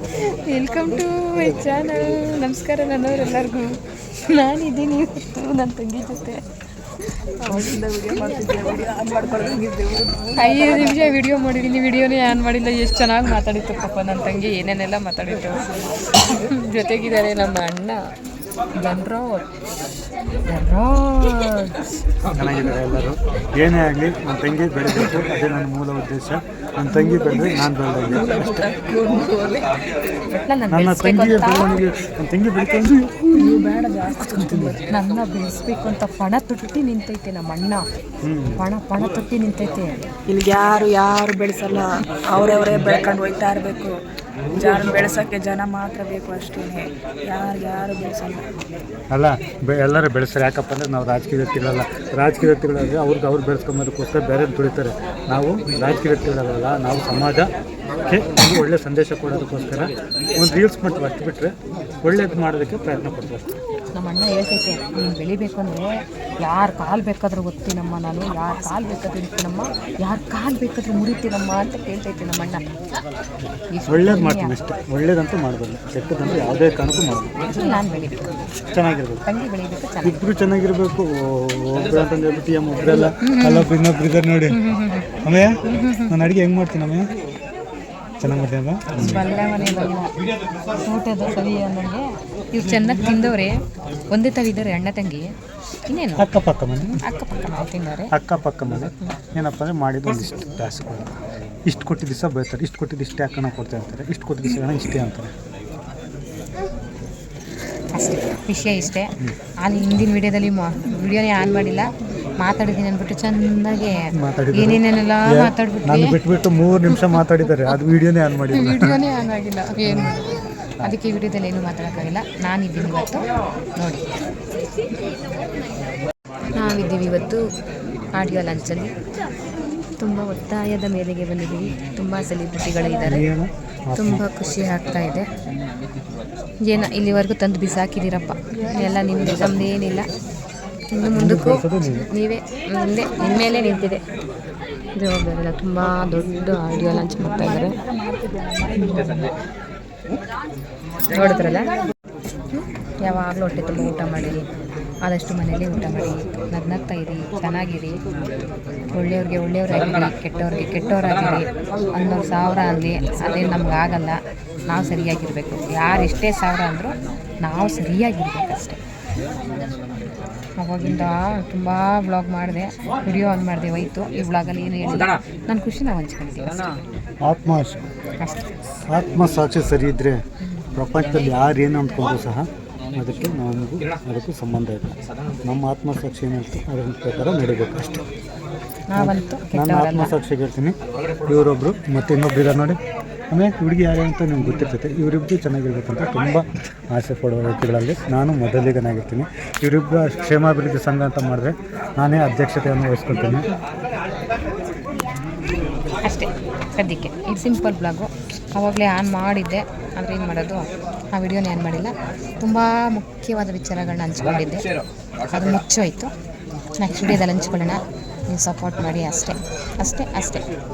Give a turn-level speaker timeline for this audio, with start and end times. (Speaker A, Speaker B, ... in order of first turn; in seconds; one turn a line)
Speaker A: 0.3-6.4
Speaker A: 7.4-7.8
Speaker B: 7.5-11.2
Speaker A: 10.4-18.0
Speaker A: 18.8-19.5
Speaker A: 20.5-21.9
Speaker C: 22.3-28.5
Speaker B: 27.1-29.7
Speaker A: 30.3-31.8
Speaker C: 30.7-33.3
Speaker B: 33.3-34.9
Speaker A: 33.4-33.8
Speaker C: 34.2-34.8
Speaker A: 34.9-37.8
Speaker C: 38.2-38.6
Speaker A: 38.6-40.0
Speaker B: 40.3-44.0
Speaker B: 44.5-48.5
Speaker C: 49.1-57.5
Speaker C: 58.0-61.5
Speaker C: 62.0-63.5
Speaker A: 63.9-65.9
Speaker A: 66.4-72.6
Speaker A: 73.7-74.5
Speaker C: 73.9-77.3
Speaker A: 77.5-78.3
Speaker C: 78.7-79.2
Speaker A: 79.3-80.2
Speaker C: 80.0-84.6
Speaker A: 83.2-83.7
Speaker A: 84.5-85.1
Speaker C: 85.2-85.5
Speaker A: 85.6-86.2
Speaker C: 86.1-87.1
Speaker C: 88.2-89.2
Speaker A: 89.0-90.1
Speaker A: 90.9-93.5
Speaker A: 94.1-95.3
Speaker A: 95.9-96.3
Speaker C: 96.2-97.0
Speaker A: 96.8-98.1
Speaker C: 98.1-101.2
Speaker C: 101.7-105.3
Speaker A: 107.9-111.9
Speaker A: 112.4-116.2
Speaker C: 114.1-119.0
Speaker A: 116.9-117.7
Speaker A: 118.5-123.2
Speaker A: 123.8-124.1
Speaker A: 126.5-127.5
Speaker A: 128.1-128.9
Speaker A: 130.0-133.3
Speaker C: 133.0-134.2
Speaker A: 133.9-135.3
Speaker A: 136.7-140.1
Speaker B: 138.5-139.1
Speaker A: 140.9-144.0
Speaker C: 141.1-142.1
Speaker A: 145.0-147.8
Speaker B: 146.7-149.3
Speaker A: 148.8-149.3
Speaker A: 151.1-151.7
Speaker A: 152.5-154.4
Speaker A: 155.0-158.0
Speaker A: 158.9-168.8
Speaker A: 170.6-176.8
Speaker C: 177.2-177.8
Speaker A: 178.2-178.5
Speaker C: 178.9-180.2
Speaker C: 180.8-188.1
Speaker A: 188.9-190.1
Speaker C: 188.9-192.8
Speaker C: 193.3-203.5
Speaker A: 206.0-214.7
Speaker A: 215.3-216.1
Speaker A: 216.8-220.5